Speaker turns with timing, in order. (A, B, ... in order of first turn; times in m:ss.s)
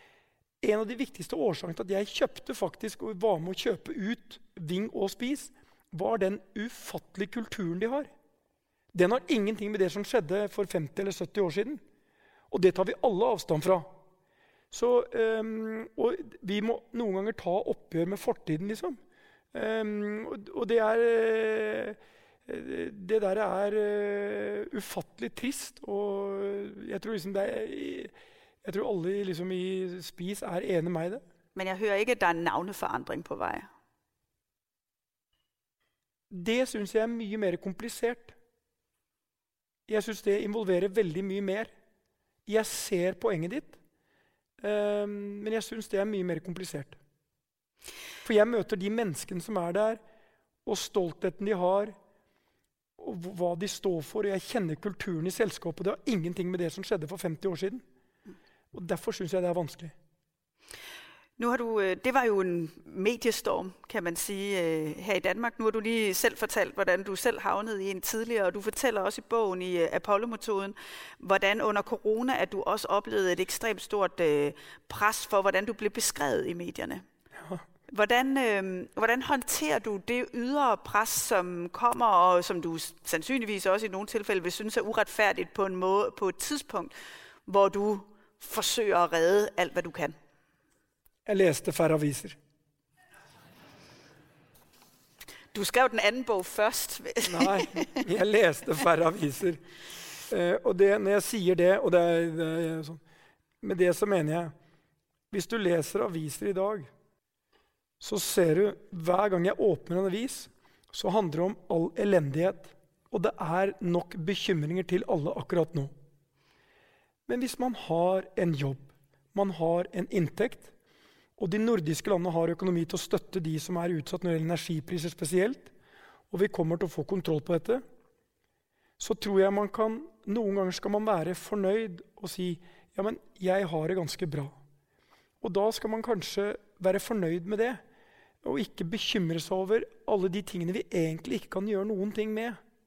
0:00.6-0:08.1 A
0:08.9-0:11.8 A
0:12.5-0:13.9 A
0:14.7-0:19.0 A
0:19.5-0:28.1 A
0:28.6-0:31.2 A
0:31.5-0:33.7 B
0:36.3-0:38.3 A
0:39.9-0:41.7 A
0:42.4-0:43.8 A
0:44.6-0:47.0 A
0:48.2-0:50.0 A
0:50.6-0:51.9 A
0:53.0-0:57.8 A
0:58.7-0:59.9 A
1:01.4-1:17.0 B
1:17.9-1:26.9 B
1:27.4-1:30.2 B
1:31.2-1:32.4 A
1:35.5-1:38.0 B
1:37.2-1:39.6 A
1:40.3-1:43.0 A
1:43.6-1:44.5 A
1:45.3-1:46.9 A
1:48.0-1:55.9 A
1:57.3-2:00.7 A
2:01.4-2:05.7 A
2:06.3-2:07.8 A
2:09.0-2:14.6 A
2:15.4-2:17.8 A
2:18.4-2:22.6 A